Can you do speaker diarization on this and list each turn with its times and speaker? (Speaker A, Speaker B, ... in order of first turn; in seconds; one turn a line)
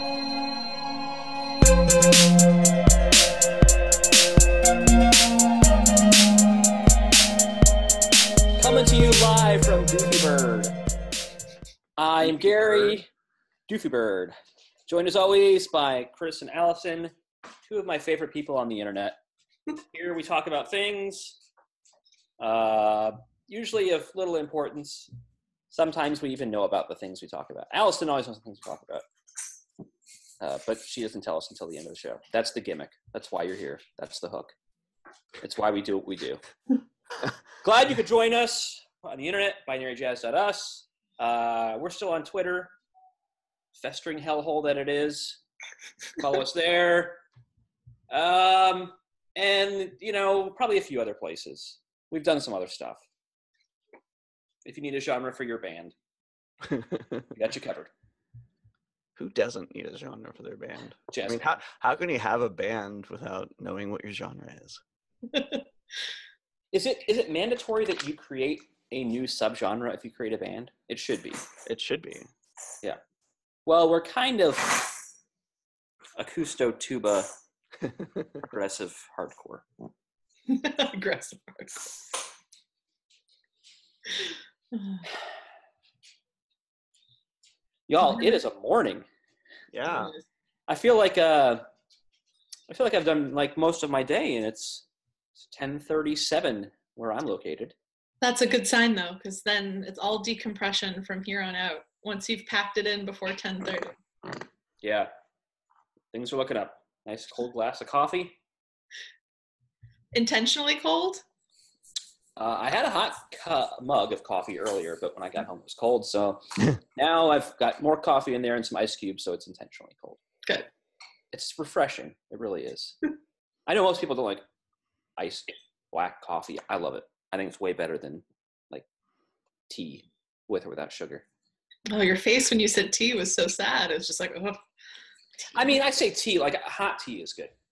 Speaker A: 8.6-10.8
Speaker A: 12.0-13.1
Speaker B: 12.3-13.0
Speaker A: 13.7-14.3
Speaker A: 14.9-17.1
Speaker A: 17.7-19.2
Speaker A: 19.8-21.4
Speaker A: 22.4-25.1
Speaker A: 25.7-29.0
Speaker A: 30.4-34.5
Speaker A: 35.4-36.4
Speaker A: 37.6-42.7
Speaker A: 43.8-45.4
Speaker A: 46.2-47.2
Speaker A: 48.1-53.0
Speaker A: 54.6-55.9
Speaker B: 56.7-57.2
Speaker A: 57.3-57.9
Speaker B: 59.2-64.8
Speaker A: 61.1-61.6
Speaker C: 65.3-65.6
Speaker A: 66.7-71.4
Speaker B: 71.7-72.3
Speaker A: 73.7-74.9
Speaker A: 76.2-77.3
Speaker A: 78.4-79.7
Speaker C: 80.5-82.1
Speaker C: 84.1-85.0
Speaker A: 87.9-89.0
Speaker B: 89.7-90.1
Speaker C: 89.8-90.2
Speaker A: 90.7-91.6
Speaker A: 92.7-94.8
Speaker A: 95.4-97.7
Speaker C: 98.2-104.0
Speaker A: 104.8-105.1
Speaker A: 106.1-108.3
Speaker C: 110.1-111.2
Speaker A: 112.4-120.2
Speaker A: 121.3-123.1
Speaker A: 123.7-124.4
Speaker A: 125.2-128.8
Speaker A: 129.7-131.2
Speaker C: 131.9-134.6
Speaker A: 135.5-137.5